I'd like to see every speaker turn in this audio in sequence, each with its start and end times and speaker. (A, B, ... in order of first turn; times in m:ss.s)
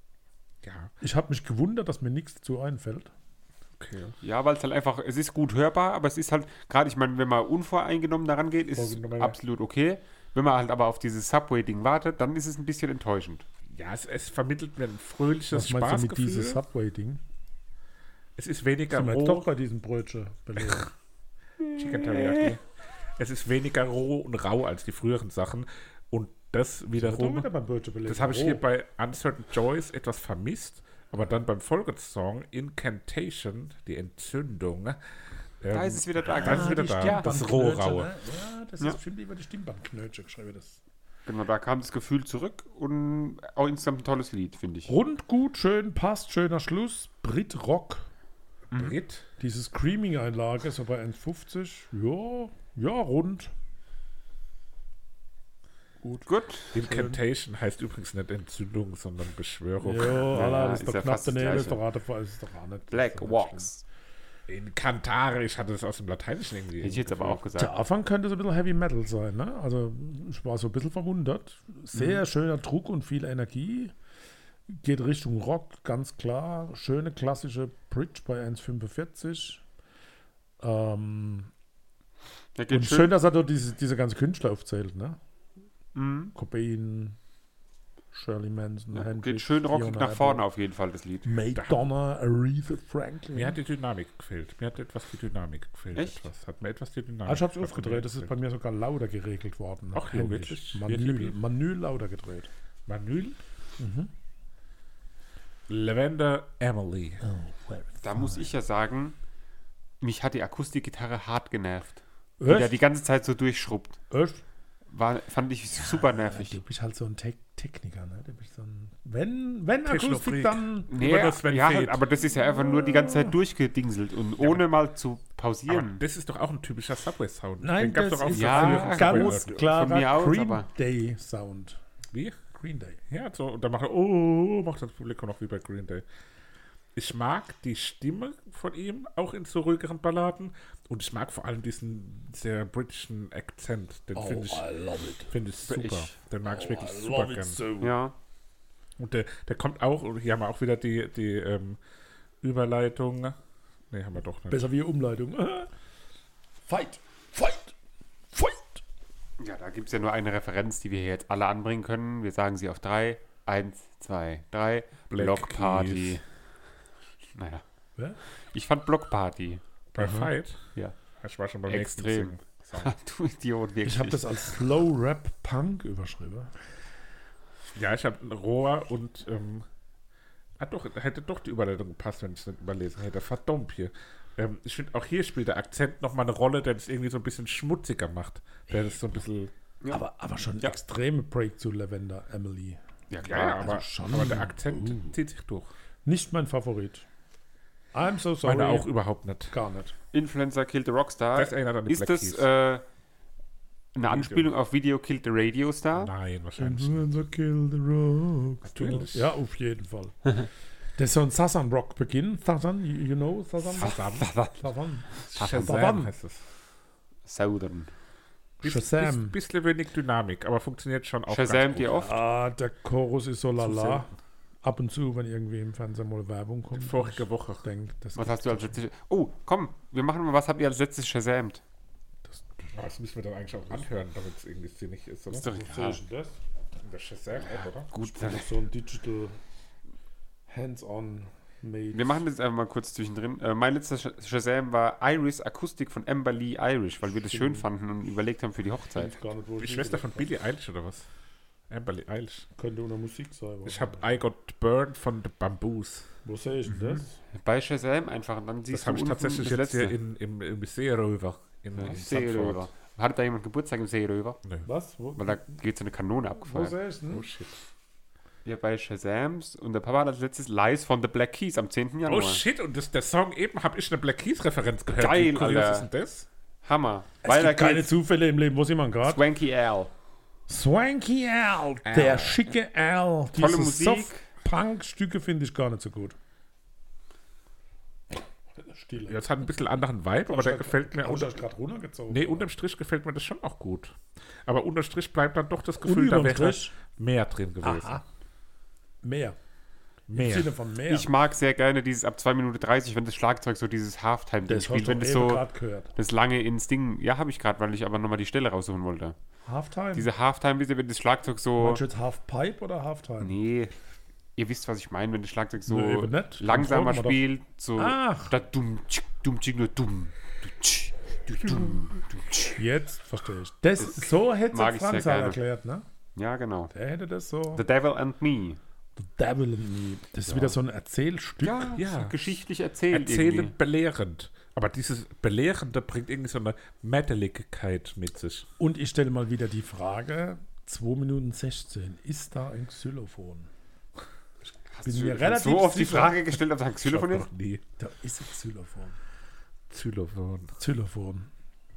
0:00.6-0:00.9 A
0:01.0-0:03.1 B
0:03.8-0:04.2 A
0:04.2-0:13.4 C
0:08.8-0:09.3 A
0:13.7-0:16.6 A
0:15.5-0:17.2 B
0:18.4-0:19.5 A
0:18.9-0:20.9 B
0:21.7-0:22.6 A
0:22.0-0:22.5 C
0:23.2-0:27.5 A
0:27.0-0:28.6 B
0:28.1-0:35.0 A
0:35.6-0:38.1 A
0:35.7-0:37.4 C
0:36.4-0:40.8 B
0:41.2-0:44.9 C
0:44.9-0:48.1 B
0:48.7-0:49.0 C
0:48.7-0:49.2 A
0:49.4-0:53.5 B
0:56.0-0:56.3 B
0:56.3-0:56.8 C
0:56.7-1:00.5 A
0:56.8-0:57.2 B
0:59.8-1:03.7 B
1:00.3-1:01.8 C
1:02.9-1:03.8 C
1:04.5-1:07.4 A
1:06.8-1:07.8 C
1:07.6-1:13.9 B
1:14.7-1:19.6 B
1:20.6-1:21.5 B
1:22.6-1:23.1 C
1:22.7-1:25.2 B
1:25.9-1:26.3 C
1:26.3-1:27.2 B
1:28.1-1:30.4 B
1:28.9-1:31.3 C
1:31.2-1:33.6 B
1:33.3-1:38.3 A
1:35.9-1:36.2 C
1:37.2-1:42.5 B
1:39.9-1:41.4 A
1:42.9-1:43.4 A
1:43.8-1:44.1 B
1:45.7-1:47.2 A
1:47.2-1:48.5 B
1:48.0-1:49.2 C
1:50.0-1:54.0 C
1:52.4-1:52.8 B
1:54.1-1:54.4 B
1:54.9-1:56.6 C
1:55.9-2:00.9 B
1:59.8-2:02.0 A
2:00.9-2:06.0 C
2:02.5-2:03.3 B
2:05.7-2:09.6 A
2:07.6-2:11.8 B
2:08.3-2:10.6 C
2:12.1-2:12.4 A
2:12.5-2:13.0 B
2:13.1-2:16.0 A
2:16.9-2:24.6 A
2:24.1-2:25.3 B
2:25.3-2:27.6 A
2:25.7-2:26.1 C
2:26.4-2:27.9 B
2:27.8-2:28.1 C
2:29.0-2:31.8 A
2:32.4-2:33.4 A
2:33.9-2:34.7 A
2:34.5-2:35.7 B
2:36.7-2:37.7 B
2:38.3-2:38.8 B
2:39.4-2:46.2 C
2:45.1-2:46.2 A
2:47.3-2:47.6 C
2:48.5-2:49.6 C
2:49.9-2:50.7 A
2:50.0-2:50.3 B
2:51.2-2:52.9 A
2:51.7-2:54.4 C
2:53.8-2:56.5 B
2:57.7-2:59.6 A
3:00.6-3:09.5 A
3:09.9-3:15.1 B
3:13.1-3:13.7 C
3:13.2-3:15.7 A
3:16.0-3:17.0 B
3:17.9-3:18.9 B
3:18.4-3:19.5 A
3:19.5-3:19.9 B
3:20.1-3:22.8 C
3:21.3-3:22.4 A
3:23.9-3:26.1 C
3:24.1-3:24.5 A
3:25.9-3:27.1 A
3:26.6-3:30.3 B
3:28.6-3:29.3 A
3:31.0-3:34.0 B
3:33.8-3:34.3 A
3:33.8-3:35.9 C
3:34.6-3:36.1 B
3:35.3-3:36.4 A
3:37.2-3:37.9 C
3:38.6-3:42.0 A
3:38.6-3:39.3 B
3:41.3-3:42.2 C
3:42.0-3:44.1 B
3:43.6-3:44.0 A
3:44.6-3:48.8 B
3:46.8-3:47.6 A
3:48.2-3:51.6 C
3:52.3-3:52.7 B
3:52.7-3:55.5 A
3:55.3-3:56.0 C
3:55.4-3:56.4 B
3:56.8-3:57.9 A
3:57.9-3:58.6 C
3:58.0-3:59.4 B
4:00.5-4:02.2 B
4:01.9-4:09.1 C
4:07.3-4:07.6 B
4:09.0-4:10.3 B
4:09.6-4:11.0 A
4:11.7-4:12.4 A
4:12.6-4:14.2 B
4:13.6-4:16.1 A
4:16.2-4:17.2 B
4:16.7-4:20.0 C
4:18.7-4:22.7 A
4:21.7-4:24.4 C
4:24.6-4:25.4 B
4:25.2-4:26.7 C
4:26.4-4:27.2 B
4:27.1-4:27.7 A
4:28.4-4:32.4 C
4:32.0-4:36.3 A
4:34.9-4:35.9 C
4:36.6-4:37.9 C
4:37.2-4:39.2 B
4:39.0-4:39.9 C
4:40.5-4:46.2 B
4:41.8-4:42.4 A
4:43.3-4:44.2 C
4:48.1-4:49.2 B
4:49.1-4:51.4 A
4:50.3-4:52.5 B
4:52.1-4:58.0 A
4:55.8-4:56.7 B
4:57.6-4:58.0 B
4:59.0-4:59.4 B
5:00.1-5:00.5 A
5:00.1-5:01.1 B
5:00.9-5:05.4 C
5:04.5-5:05.9 B
5:06.0-5:09.2 C
5:09.4-5:10.1 B
5:09.9-5:11.8 C
5:11.6-5:13.4 B
5:13.2-5:13.7 C
5:14.4-5:22.6 C
5:15.7-5:17.2 B
5:17.8-5:18.3 B
5:22.6-5:25.8 B
5:23.8-5:25.4 C
5:26.2-5:26.7 C
5:26.7-5:27.6 B
5:27.5-5:28.6 C
5:29.0-5:31.7 B
5:30.3-5:30.5 C
5:31.4-5:33.5 C
5:31.8-5:32.2 A
5:32.9-5:38.4 A
5:38.6-5:43.5 B
5:44.7-5:47.3 C
5:44.8-5:46.3 B
5:46.8-5:47.6 A
5:47.8-5:49.0 B
5:49.7-5:50.5 A
5:50.6-5:51.3 B